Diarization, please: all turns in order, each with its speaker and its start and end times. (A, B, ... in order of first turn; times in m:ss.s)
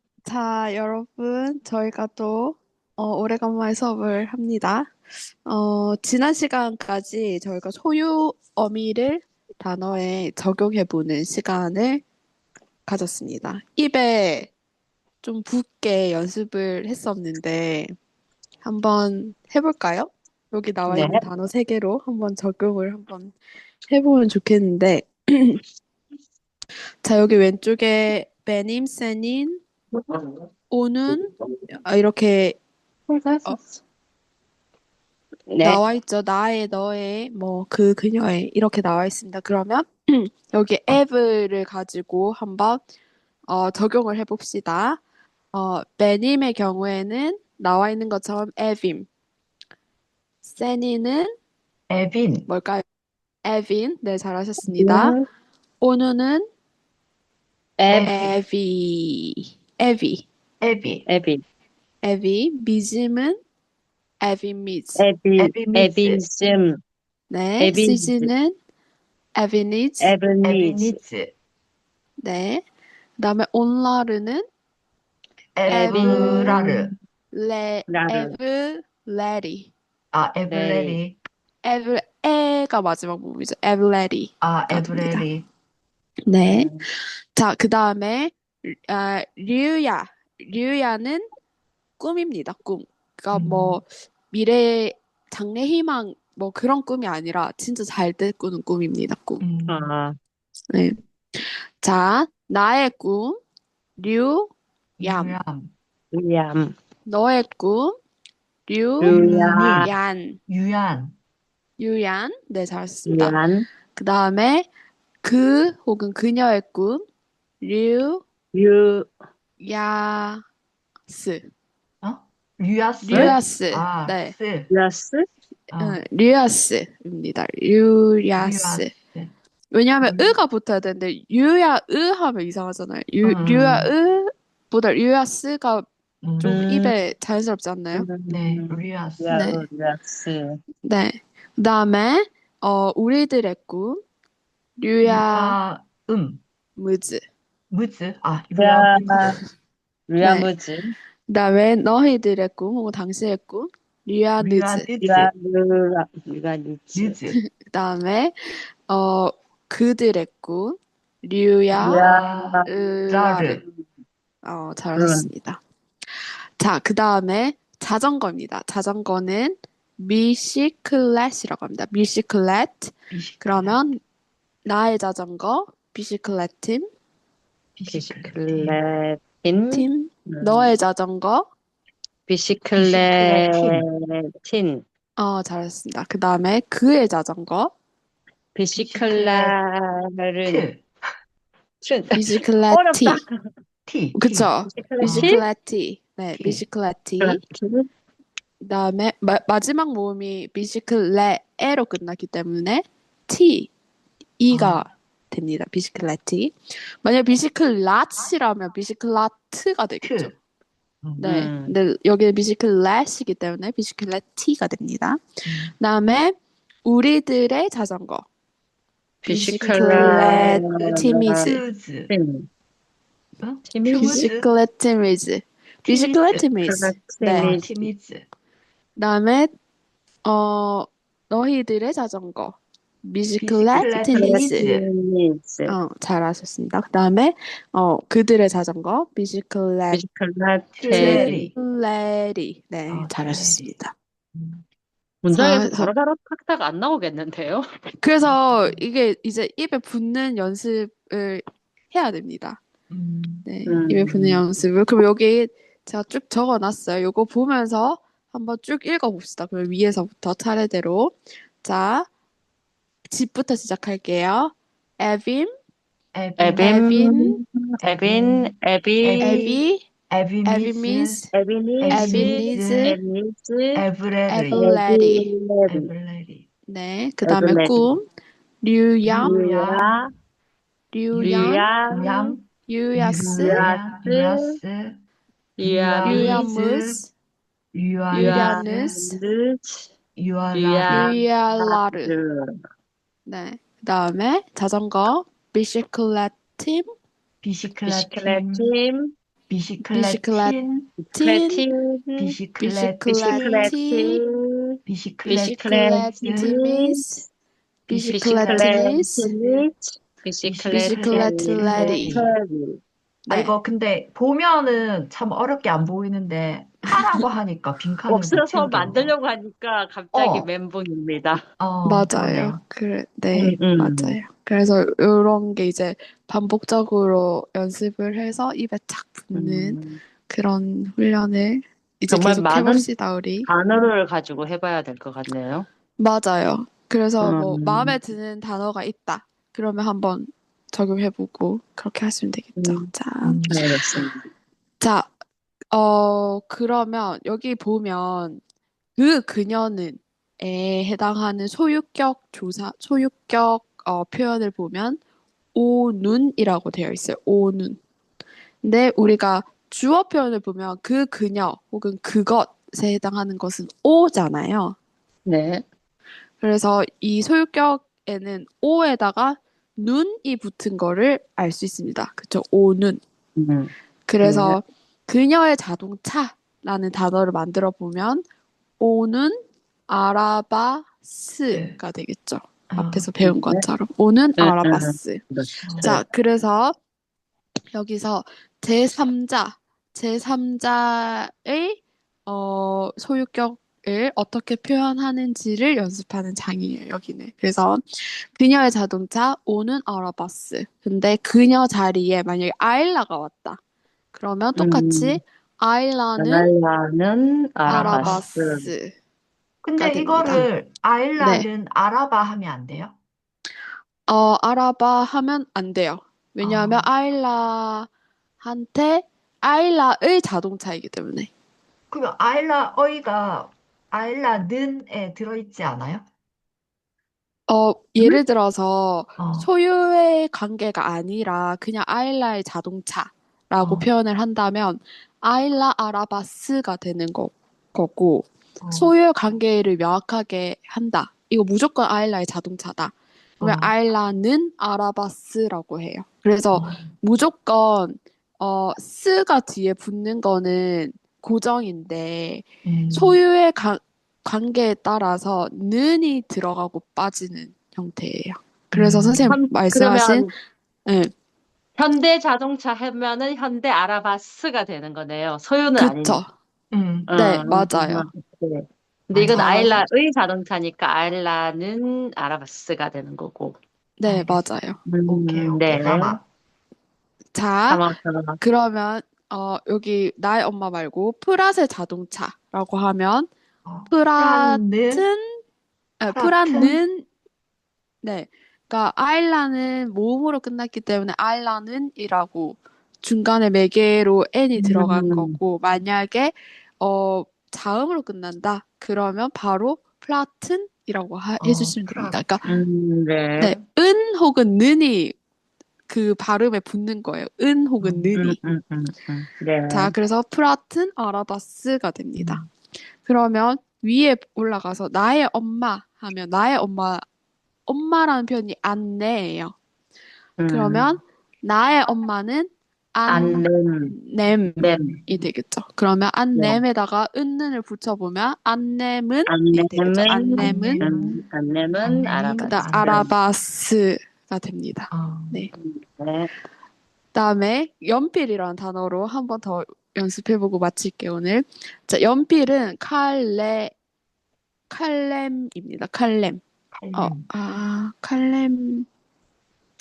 0:00.2-0:04.9 A
0:05.4-0:12.0 A
0:12.8-0:14.5 A
0:15.2-0:17.9 A
0:18.6-0:23.3 A
0:20.9-0:21.2 B
0:23.9-0:25.6 A
0:27.0-0:29.6 A
0:29.9-0:30.4 B
0:30.7-0:32.6 A
0:33.1-0:33.8 B
0:35.5-0:35.8 B
0:35.6-0:42.8 A
0:43.5-0:45.0 A
0:45.5-0:49.1 A
0:50.4-0:51.3 A
0:51.9-0:52.5 C
0:52.5-0:52.8 A
0:53.4-0:55.1 A
0:54.6-0:55.2 B
0:55.8-0:56.4 A
0:57.8-0:58.1 B
0:57.9-0:58.4 C
0:57.9-1:00.2 A
1:00.6-1:01.0 C
1:01.0-1:01.4 B
1:02.0-1:03.4 A
1:04.2-1:05.0 A
1:05.0-1:06.8 B
1:05.4-1:06.2 C
1:07.3-1:08.5 A
1:07.6-1:08.3 B
1:09.4-1:10.1 A
1:10.0-1:11.0 B
1:10.4-1:11.3 C
1:12.2-1:12.6 A
1:13.2-1:14.4 A
1:15.5-1:16.9 C
1:15.7-1:16.9 B
1:15.7-1:16.7 A
1:17.3-1:19.7 A
1:17.9-1:18.4 B
1:20.1-1:21.2 C
1:20.5-1:21.0 B
1:21.6-1:25.3 A
1:24.4-1:25.4 C
1:26.3-1:31.2 A
1:26.4-1:26.8 B
1:32.0-1:39.4 A
1:33.3-1:33.8 C
1:39.4-1:39.9 C
1:39.7-1:40.2 B
1:40.7-1:43.4 A
1:44.0-1:45.4 A
1:45.0-1:45.7 C
1:46.1-1:46.7 B
1:47.1-1:48.0 A
1:48.7-1:49.2 A
1:49.0-1:49.9 B
1:49.1-1:49.9 C
1:49.8-1:50.4 A
1:50.5-1:51.1 C
1:51.8-1:53.4 A
1:53.0-1:53.6 B
1:53.9-1:54.7 A
1:55.2-1:57.0 A
1:57.6-1:58.2 A
1:58.5-1:59.1 B
1:59.6-2:00.4 A
2:01.1-2:01.4 A
2:02.0-2:04.7 C
2:03.0-2:04.3 A
2:03.1-2:03.3 B
2:04.7-2:05.2 B
2:05.7-2:06.0 C
2:05.8-2:08.9 A
2:08.4-2:09.3 C
2:09.7-2:15.8 A
2:10.0-2:10.4 B
2:13.2-2:13.9 C
2:16.2-2:16.6 C
2:16.4-2:18.1 A
2:16.4-2:16.9 B
2:17.9-2:20.6 B
2:18.3-2:19.3 C
2:19.3-2:19.6 A
2:20.8-2:24.0 A
2:24.8-2:25.6 A
2:25.0-2:26.4 C
2:26.8-2:27.2 A
2:27.7-2:29.4 C
2:28.6-2:29.4 B
2:30.1-2:30.9 B
2:30.2-2:30.5 A
2:31.3-2:34.9 A
2:34.4-2:35.3 C
2:35.0-2:37.2 B
2:36.9-2:37.4 C
2:37.7-2:38.3 A
2:38.9-2:42.0 A
2:41.7-2:43.6 C
2:41.7-2:42.7 B
2:42.6-2:43.6 A
2:44.4-2:45.6 A
2:44.9-2:45.3 B
2:46.6-2:54.0 A
2:53.1-2:53.8 C
2:54.6-2:56.9 A
2:57.8-2:58.8 C
2:57.9-3:00.7 B
2:59.7-3:01.4 A
3:02.3-3:04.8 B
3:02.8-3:03.8 C
3:05.2-3:07.7 A
3:08.5-3:10.7 B
3:08.7-3:09.5 C
3:10.4-3:10.9 C
3:11.8-3:13.3 B
3:12.1-3:13.2 A
3:13.9-3:15.4 C
3:14.1-3:17.4 A
3:14.8-3:15.4 B
3:16.3-3:16.6 B
3:17.2-3:17.9 B
3:18.6-3:23.7 A
3:24.4-3:30.3 A
3:24.5-3:24.8 C
3:30.0-3:30.3 C
3:31.2-3:35.2 A
3:31.2-3:31.7 B
3:35.4-3:35.7 C
3:35.8-3:38.2 A
3:39.2-3:42.5 B
3:39.2-3:41.6 A
3:39.7-3:42.1 C
3:43.4-3:44.5 C
3:43.7-3:44.3 B
3:44.0-3:47.6 A
3:45.8-3:46.5 C
3:46.6-3:47.9 B
3:47.3-3:48.2 C
3:49.0-3:49.5 A
3:50.2-3:54.6 A
3:53.4-3:54.8 C
3:54.1-3:55.7 B
3:55.7-4:00.0 A
3:59.9-4:01.5 B
4:00.7-4:01.5 C
4:00.9-4:03.9 A
4:02.9-4:03.6 C
4:04.3-4:04.6 C
4:05.2-4:07.6 B
4:05.3-4:05.9 A
4:08.0-4:12.6 A
4:08.2-4:08.8 C
4:12.9-4:13.4 C
4:13.4-4:22.1 A
4:13.6-4:14.4 B
4:23.1-4:25.5 A
4:26.1-4:26.9 C
4:26.4-4:29.4 B
4:26.6-4:27.4 A
4:27.8-4:31.2 C
4:29.2-4:29.8 A
4:30.4-4:31.3 A
4:31.3-4:33.8 B
4:31.8-4:33.0 C
4:31.9-4:33.0 A
4:33.7-4:34.6 C
4:34.3-4:35.3 A
4:34.5-4:35.9 B
4:35.7-4:36.4 C
4:36.7-4:38.0 A
4:37.2-4:37.9 B
4:38.6-4:39.3 A
4:39.0-4:40.0 C
4:39.2-4:40.1 B
4:40.9-4:41.7 A
4:41.1-4:45.0 C
4:41.2-4:42.4 B
4:42.6-4:43.6 A
4:43.2-4:44.5 B
4:45.6-4:46.5 B
4:45.6-4:47.0 C
4:46.0-4:47.1 A
4:47.7-4:48.7 C
4:48.1-4:49.9 B
4:48.1-4:49.2 A
4:50.2-4:51.1 C
4:50.5-4:52.5 B
4:50.9-4:52.1 A
4:53.2-4:56.9 A
4:57.4-4:58.7 C
4:57.8-4:59.1 B
4:59.5-5:00.9 C
4:59.8-5:00.6 A
5:01.0-5:02.4 B
5:01.1-5:01.7 A
5:02.2-5:03.7 C
5:02.6-5:04.2 A
5:03.2-5:07.0 B
5:04.9-5:06.5 C
5:05.3-5:07.2 A
5:07.9-5:09.3 A
5:07.9-5:12.8 B
5:08.4-5:09.6 C
5:10.4-5:12.3 C
5:10.7-5:12.3 A
5:13.3-5:13.5 A
5:13.3-5:19.1 C
5:16.9-5:17.2 A
5:18.1-5:21.4 B
5:20.1-5:20.5 C
5:21.6-5:22.6 C
5:21.8-5:33.5 A
5:23.3-5:24.2 B
5:29.3-5:30.0 B
5:32.1-5:32.9 B
5:33.4-5:35.7 B
5:36.0-5:43.5 A
5:37.2-5:38.0 B
5:42.6-5:42.8 B
5:43.2-5:43.6 C
5:43.5-5:44.2 B
5:44.8-5:45.1 A
5:45.7-5:48.4 A
5:49.0-5:55.0 A
5:55.5-5:57.8 A
5:58.6-6:04.8 A
6:05.2-6:05.6 B
6:06.4-6:13.0 A
6:13.4-6:14.6 B
6:14.1-6:18.2 A
6:18.8-6:25.2 A
6:21.5-6:21.8 C
6:22.7-6:23.1 C
6:23.2-6:23.6 B
6:24.4-6:26.0 B
6:25.6-6:26.0 C
6:25.8-6:26.8 A
6:27.7-6:43.6 A
6:44.1-6:46.5 A
6:44.6-6:45.2 B
6:46.2-6:48.7 B
6:47.6-6:48.2 C
6:47.7-6:48.9 A
6:49.6-6:52.9 C
6:49.8-6:50.5 A
6:51.2-6:51.5 A
6:54.1-6:57.9 A
6:56.4-6:56.8 C
6:58.4-7:01.3 A
7:01.9-7:06.0 C
7:07.5-7:40.3 A
7:09.2-7:09.5 C
7:13.6-7:13.9 C
7:18.6-7:18.9 C
7:23.4-7:23.7 C
7:26.5-7:26.9 C
7:32.6-7:33.2 C
7:38.7-7:39.3 C
7:39.3-7:40.3 B
7:40.8-7:41.1 A
7:41.8-7:46.2 B
7:45.8-7:46.3 A
7:46.7-7:47.1 C
7:47.1-7:53.6 B
7:47.1-7:48.1 A
7:49.1-7:49.8 C
7:54.0-7:54.8 A
7:54.0-7:54.4 C
7:54.9-7:56.2 B
7:55.1-7:56.2 C
7:57.3-7:57.8 A
7:57.7-7:58.4 B
7:58.4-8:03.3 A
8:03.6-8:05.1 C
8:03.9-8:05.4 A
8:06.0-8:07.0 A
8:06.1-8:06.8 C
8:08.0-8:22.4 A
8:14.6-8:15.4 B
8:21.4-8:22.6 C
8:22.4-8:23.6 B
8:23.4-8:25.1 A
8:25.9-8:28.4 A
8:27.8-8:28.1 C
8:28.1-8:29.9 B
8:29.7-8:32.4 A
8:32.2-8:32.5 C
8:33.0-8:37.0 A
8:37.7-8:39.5 A
8:40.4-8:40.9 B
8:40.5-8:50.9 A
8:43.1-8:43.9 B
8:43.1-8:43.4 C
8:44.6-8:45.0 B
8:46.3-8:46.6 B
8:49.3-8:53.1 B
8:50.4-8:51.2 C
8:51.8-8:53.1 C
8:52.3-8:55.5 A
8:54.9-8:55.4 C
8:55.5-8:56.3 B
8:57.1-9:03.7 A
9:04.7-9:06.4 A
9:06.7-9:07.3 C
9:06.9-9:08.9 A